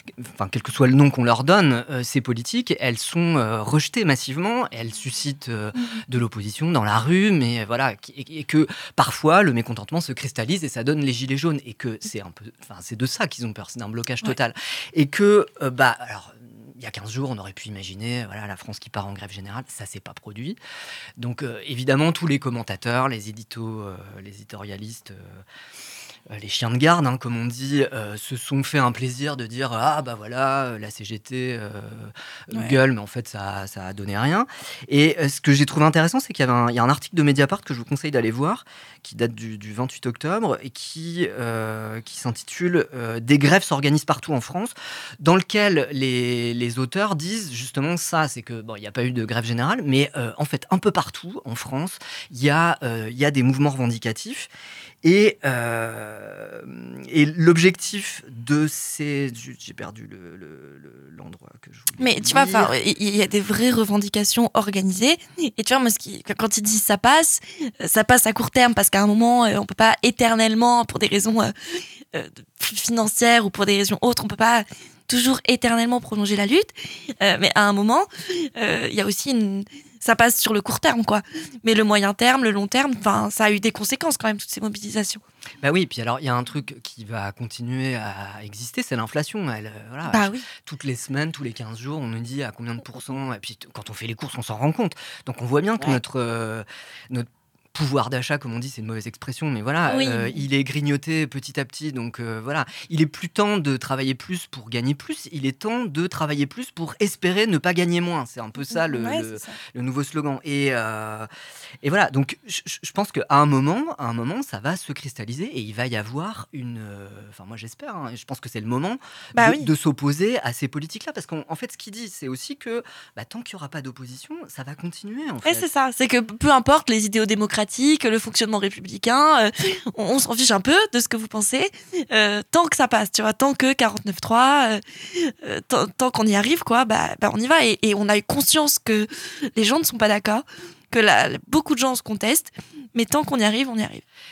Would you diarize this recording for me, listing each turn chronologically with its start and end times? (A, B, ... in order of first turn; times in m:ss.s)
0:00.3-0:20.6 A
0:21.2-0:25.2 A
0:26.3-0:54.5 A
0:32.5-0:32.8 B
0:55.0-1:02.7 A
1:02.0-1:11.5 B
1:12.1-1:25.2 B
1:25.6-1:51.3 A
1:30.1-1:30.4 B
1:39.9-1:40.4 B
1:48.7-1:49.6 B
1:51.8-2:05.6 A
1:59.4-1:59.7 B
2:05.4-2:14.8 B
2:15.4-2:24.0 B